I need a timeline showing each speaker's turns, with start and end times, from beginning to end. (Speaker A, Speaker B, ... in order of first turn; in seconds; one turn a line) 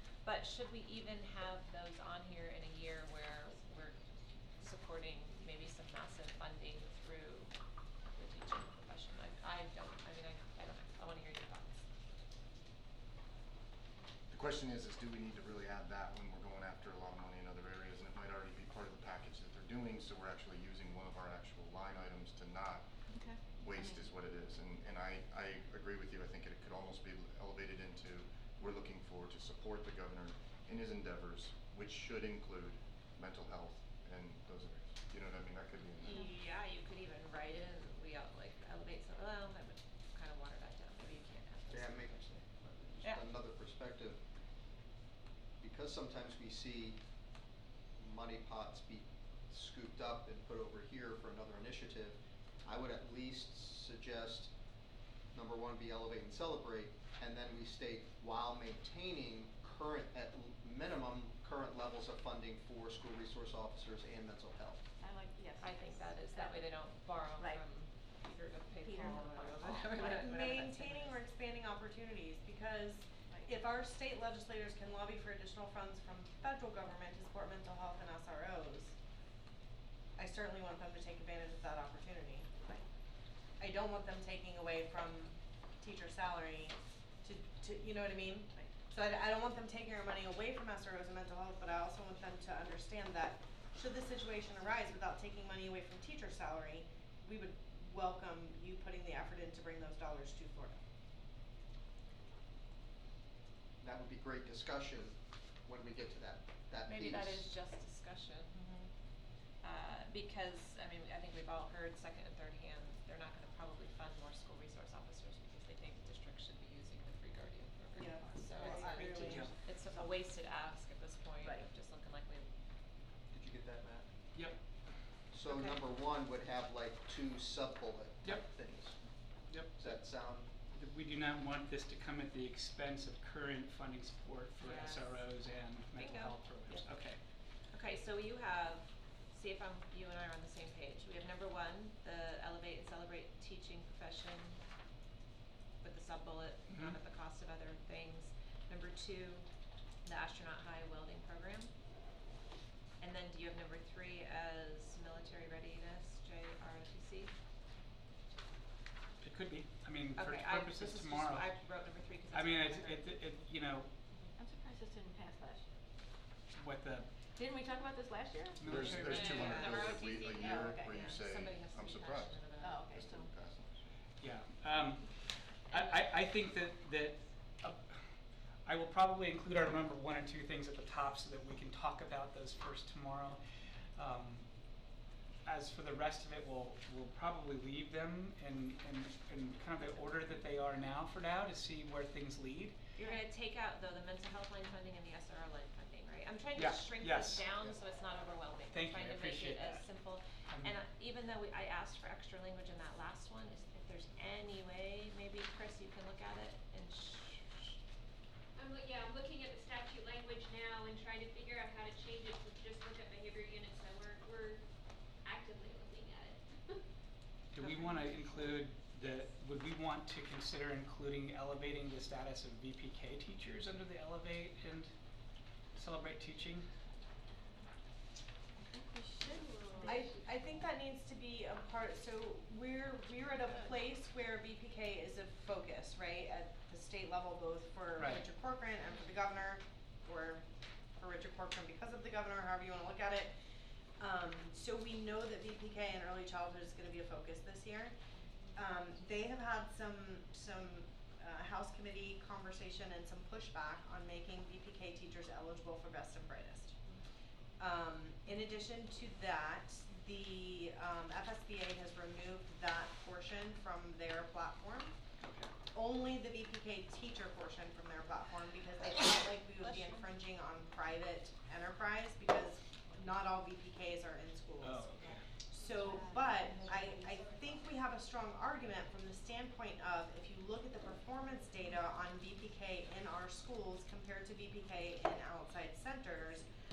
Speaker A: 0.2-4.0
Speaker A: 4.6-7.5
Speaker A: 8.2-11.8
Speaker B: 14.3-22.9
Speaker C: 23.1-24.1
Speaker B: 23.5-36.2
Speaker A: 36.0-42.4
Speaker D: 41.7-44.2
Speaker D: 45.6-47.0
Speaker D: 48.0-54.5
Speaker D: 55.3-64.8
Speaker C: 65.0-66.7
Speaker A: 65.6-71.2
Speaker C: 68.8-69.6
Speaker E: 70.0-79.0
Speaker E: 80.2-82.8
Speaker E: 83.6-100.8
Speaker D: 103.8-107.5
Speaker A: 106.8-108.6
Speaker E: 108.5-108.9
Speaker A: 109.6-122.5
Speaker E: 118.0-119.5
Speaker C: 118.4-119.2
Speaker F: 118.7-119.5
Speaker D: 123.3-124.1
Speaker D: 125.3-129.0
Speaker A: 125.5-125.8
Speaker F: 129.5-130.0
Speaker D: 129.8-130.5
Speaker F: 130.7-137.2
Speaker A: 134.6-135.3
Speaker A: 136.0-136.4
Speaker A: 137.7-144.6
Speaker A: 145.8-149.5
Speaker F: 146.7-146.9
Speaker A: 150.1-151.7
Speaker A: 153.0-157.3
Speaker F: 159.2-161.6
Speaker A: 160.2-163.1
Speaker F: 162.3-163.9
Speaker C: 164.4-165.7
Speaker F: 166.6-167.1
Speaker C: 167.3-171.1
Speaker F: 168.6-169.7
Speaker B: 168.7-173.8
Speaker A: 169.1-172.9
Speaker C: 172.6-173.3
Speaker F: 174.2-175.1
Speaker F: 175.7-178.0
Speaker A: 175.7-176.0
Speaker F: 178.7-183.4
Speaker F: 184.0-184.5
Speaker F: 185.4-192.8
Speaker A: 193.0-207.8
Speaker F: 196.6-197.4
Speaker F: 198.7-199.9
Speaker F: 200.5-200.7
Speaker G: 208.6-214.6
Speaker G: 215.2-216.8
Speaker F: 217.5-224.9
Speaker A: 217.6-217.9
Speaker F: 225.8-226.7
Speaker C: 228.6-230.2
Speaker E: 229.8-240.4
Speaker F: 238.0-238.2
Speaker E: 241.0-243.3
Speaker E: 244.0-248.0
Speaker E: 248.6-256.8
Speaker E: 257.6-264.9
Speaker F: 265.2-265.5
Speaker E: 265.7-274.9
Speaker C: 269.6-270.1
Speaker F: 274.6-275.2
Speaker E: 275.5-286.5
Speaker C: 275.7-277.5